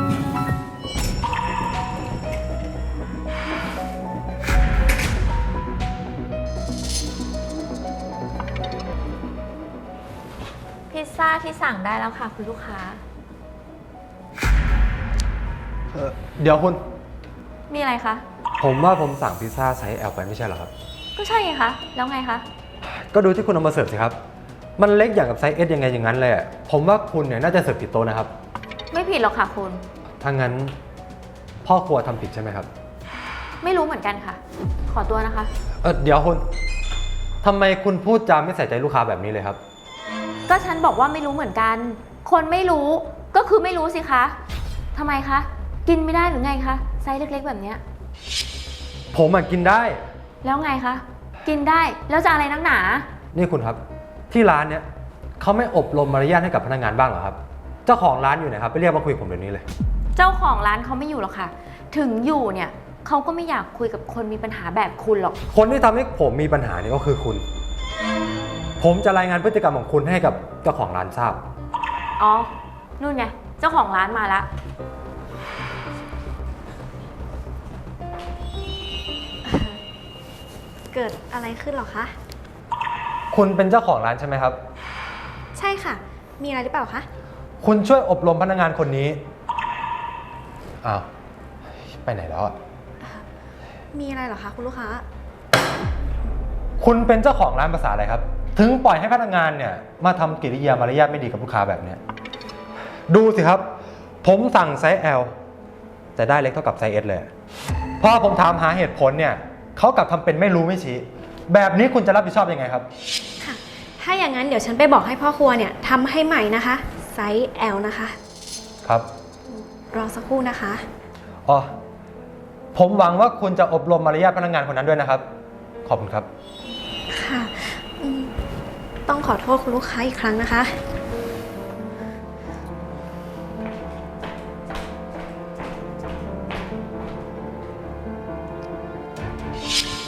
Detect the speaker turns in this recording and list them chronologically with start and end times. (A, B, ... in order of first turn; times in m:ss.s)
0:10.9-0:13.0 A
0:15.9-0:16.8 B
0:17.7-0:18.2 A
0:18.6-0:20.7 B
0:21.2-0:22.4 A
0:22.8-0:24.2 B
0:24.8-0:28.3 B
0:28.9-0:29.8 A
0:30.2-0:30.8 B
0:31.6-0:32.7 B
0:33.6-0:35.5 A
0:35.8-0:36.4 B
0:37.4-0:39.6 B
0:40.5-0:44.4 A
0:44.9-0:47.8 A
0:49.1-0:50.0 B
0:50.4-0:53.1 A
0:53.3-0:53.8 B
0:54.3-0:54.9 B
0:55.4-0:59.6 B
1:00.2-1:05.4 A
1:05.5-1:07.4 B
1:08.8-1:11.4 B
1:12.2-1:14.5 A
1:19.4-1:19.8 C
1:20.9-1:22.2 C
1:23.3-1:24.6 B
1:25.6-1:27.1 C
1:27.6-1:29.2 B
1:31.8-1:32.6 B
1:33.9-1:35.0 C
1:36.8-1:42.0 B
1:43.1-1:45.3 B
1:46.2-1:47.3 B
1:48.0-1:52.9 B
1:53.4-1:58.2 C
1:59.9-2:00.8 C
2:02.7-2:05.2 B
2:05.8-2:06.3 B
2:07.1-2:08.3 C
2:09.1-2:10.8 C